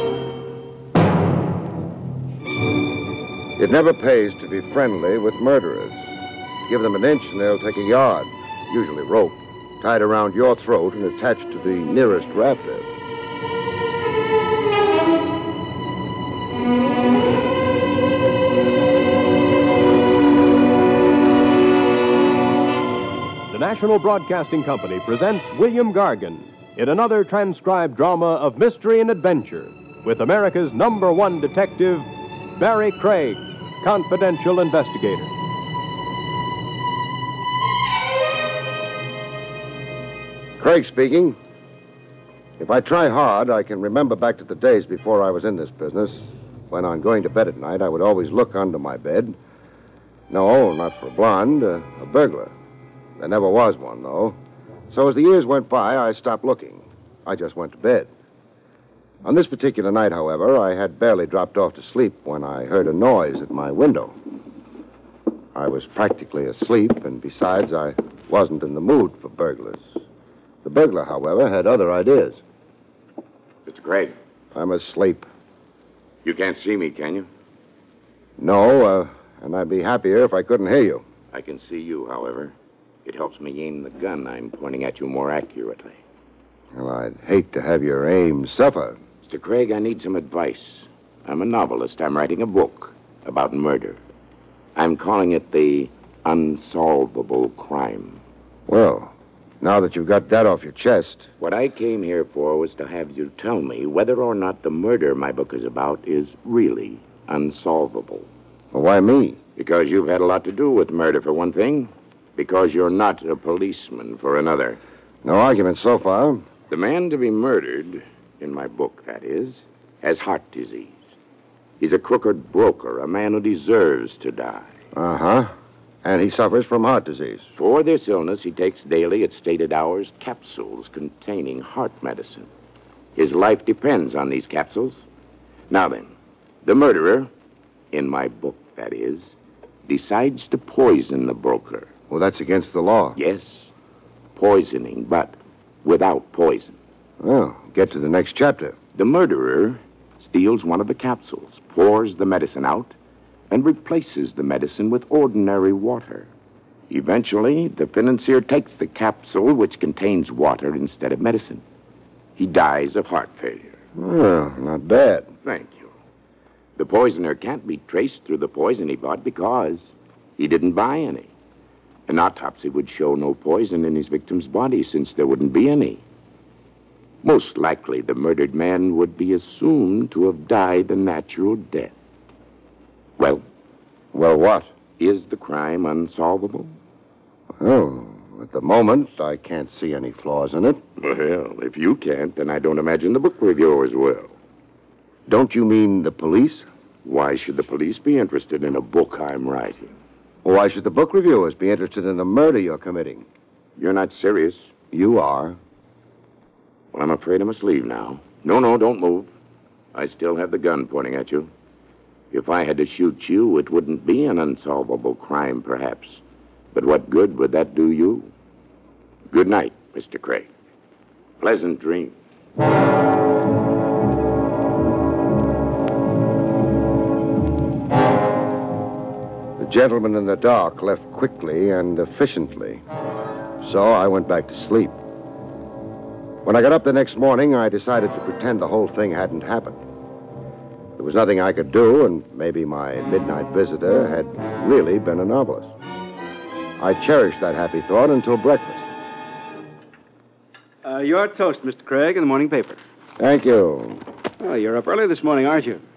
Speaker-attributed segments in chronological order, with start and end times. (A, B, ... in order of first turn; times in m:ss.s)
0:03.6-0:06.1 A
0:06.6-0:12.9 A
0:23.5-0:35.3 B
0:40.6-0:41.4 A
0:42.6-0:49.4 A
0:50.3-0:52.5 A
0:53.2-0:54.4 A
0:54.9-0:58.1 A
0:59.2-1:04.2 A
1:05.6-1:09.9 A
1:10.6-1:12.4 A
1:13.7-1:14.2 C
1:14.5-1:15.3 A
1:16.2-1:17.3 C
1:18.4-1:21.0 A
1:21.3-1:22.5 C
1:23.1-1:26.0 C
1:26.7-1:29.0 A
1:29.2-1:34.0 C
1:34.8-1:38.2 C
1:38.7-1:41.3 A
1:41.4-1:48.3 C
1:48.7-1:49.4 A
1:49.6-1:54.8 C
1:55.2-1:56.5 A
1:56.7-2:01.0 C
2:01.8-2:04.7 C
2:04.9-2:07.4 A
2:07.6-2:12.5 C
2:13.2-2:15.0 C
2:15.7-2:16.1 C
2:16.6-2:17.3 C
2:17.9-2:19.3 C
2:19.8-2:21.9 C
2:22.1-2:23.2 A
2:23.2-2:23.7 C
2:24.4-2:26.8 C
2:27.2-2:28.8 A
2:28.9-2:32.9 C
2:33.5-2:36.3 C
2:36.9-2:41.6 C
2:42.4-2:43.8 C
2:44.0-2:45.3 A
2:45.4-2:45.9 C
2:46.8-2:51.3 C
2:52.1-2:56.0 C
2:57.2-3:01.9 C
3:03.2-3:03.4 C
3:04.1-3:04.7 A
3:05.0-3:06.7 C
3:07.6-3:10.8 A
3:11.0-3:14.3 C
3:15.3-3:16.7 A
3:17.0-3:20.0 C
3:20.4-3:23.2 A
3:23.8-3:24.7 C
3:24.9-3:25.6 A
3:26.9-3:29.3 C
3:29.9-3:31.5 C
3:32.3-3:36.2 C
3:36.7-3:38.3 C
3:39.3-3:40.5 C
3:41.4-3:42.2 C
3:49.6-3:52.8 A
3:53.6-3:55.0 A
3:56.4-3:59.8 A
4:01.0-4:05.7 A
4:06.8-4:08.9 A
4:10.8-4:12.8 D
4:13.2-4:14.0 A
4:14.4-4:15.8 D